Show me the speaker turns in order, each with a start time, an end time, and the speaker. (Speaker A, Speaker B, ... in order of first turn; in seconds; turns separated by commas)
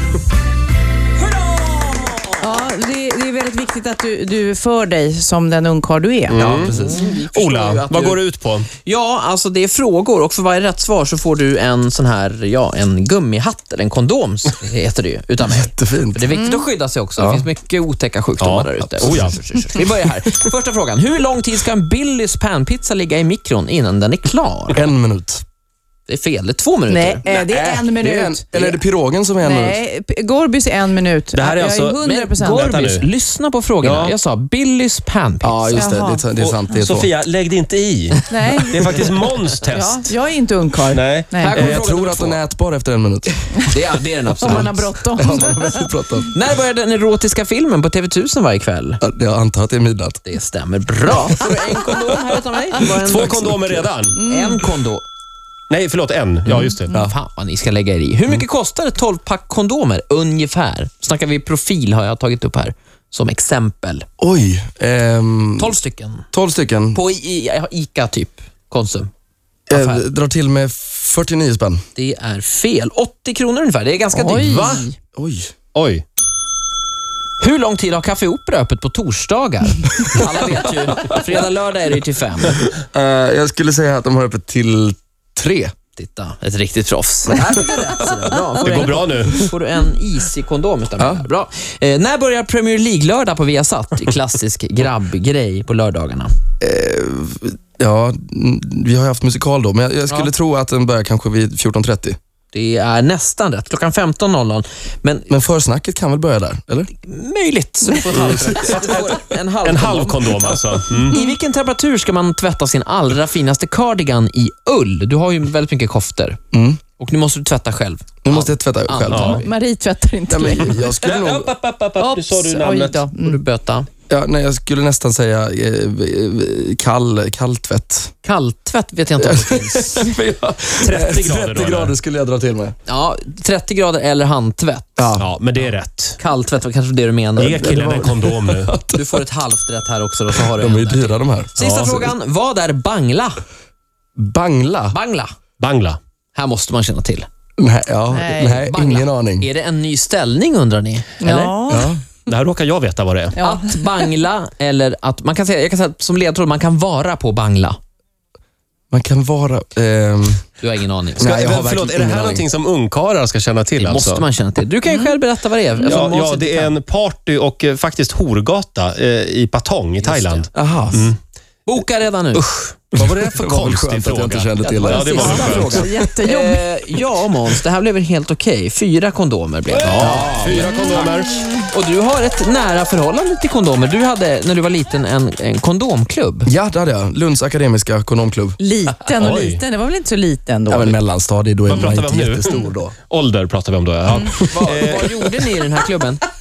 Speaker A: 1.2-2.6, Speaker B: 2.4-6.4, Speaker C: 6.3-6.8, Speaker D: 6.4-7.1, Speaker A: 6.5-8.2, Speaker C: 7.3-8.7, Speaker A: 8.8-24.9, Speaker D: 15.4-16.4, Speaker B: 16.3-16.6, Speaker D: 17.2-17.5, Speaker C: 18.4-19.4, Speaker D: 24.7-25.4, Speaker A: 26.1-27.2, Speaker B: 26.9-28.6, Speaker D: 27.3-29.8, Speaker B: 29.4-32.7, Speaker C: 31.3-33.1, Speaker A: 32.0-35.9, Speaker C: 33.8-34.2, Speaker D: 35.4-37.1, Speaker B: 35.7-36.2, Speaker C: 36.4-40.1, Speaker B: 38.3-39.2, Speaker B: 39.7-41.5, Speaker C: 40.9-41.8, Speaker A: 41.4-42.4, Speaker D: 41.5-43.6, Speaker A: 43.7-44.9, Speaker B: 44.4-45.9, Speaker D: 44.5-46.3, Speaker A: 46.3-49.0, Speaker D: 49.0-50.2, Speaker A: 50.2-55.1, Speaker C: 52.9-54.2, Speaker B: 54.3-54.6, Speaker C: 55.7-56.9, Speaker A: 56.8-64.1, Speaker D: 64.2-65.7, Speaker A: 65.6-66.3, Speaker D: 66.3-67.0, Speaker A: 66.9-69.1, Speaker D: 69.7-71.8, Speaker A: 69.7-70.0, Speaker A: 72.0-74.8, Speaker B: 74.1-75.0, Speaker C: 74.4-74.9, Speaker D: 75.2-75.5, Speaker C: 75.7-76.0, Speaker A: 77.4-82.7, Speaker D: 80.0-81.3, Speaker D: 82.9-85.7, Speaker A: 86.0-96.3, Speaker C: 88.6-89.5, Speaker D: 91.0-91.3, Speaker D: 96.6-102.2, Speaker A: 102.5-105.3, Speaker D: 105.3-106.9, Speaker A: 107.0-116.4, Speaker C: 108.1-109.0, Speaker D: 108.3-108.9, Speaker C: 109.6-111.2, Speaker D: 116.5-116.8, Speaker A: 117.0-119.5, Speaker D: 118.2-119.4, Speaker C: 119.1-119.4, Speaker B: 119.4-121.0, Speaker D: 120.3-121.5, Speaker C: 120.6-123.0, Speaker B: 122.0-123.4, Speaker A: 123.2-123.9, Speaker D: 124.1-128.1, Speaker A: 128.2-130.0, Speaker D: 129.2-132.8, Speaker C: 130.8-131.9, Speaker A: 132.9-135.1, Speaker D: 135.0-135.3, Speaker C: 135.2-136.2, Speaker A: 136.2-137.8, Speaker C: 137.4-138.8, Speaker D: 137.4-139.2, Speaker A: 138.9-143.4, Speaker D: 140.3-142.2, Speaker D: 144.2-145.0, Speaker A: 144.9-145.3, Speaker C: 145.6-146.0, Speaker A: 146.3-147.3, Speaker D: 147.6-149.5, Speaker B: 148.1-148.7, Speaker A: 148.6-151.6, Speaker B: 151.2-151.9, Speaker D: 151.7-152.0, Speaker C: 152.3-153.4, Speaker B: 153.4-153.8, Speaker A: 153.4-157.8, Speaker D: 158.9-160.4, Speaker A: 160.6-161.4, Speaker D: 161.2-162.5, Speaker C: 161.2-164.3, Speaker A: 163.8-166.7, Speaker C: 165.8-171.2, Speaker A: 170.0-170.5, Speaker D: 170.5-171.1, Speaker A: 171.7-172.7, Speaker C: 172.9-175.9, Speaker D: 172.9-175.8, Speaker A: 174.6-186.5, Speaker B: 175.1-176.6, Speaker C: 179.7-181.4, Speaker D: 186.5-188.6, Speaker B: 188.6-191.0, Speaker C: 189.1-189.6, Speaker D: 190.7-192.9, Speaker C: 191.7-195.1, Speaker A: 194.4-196.2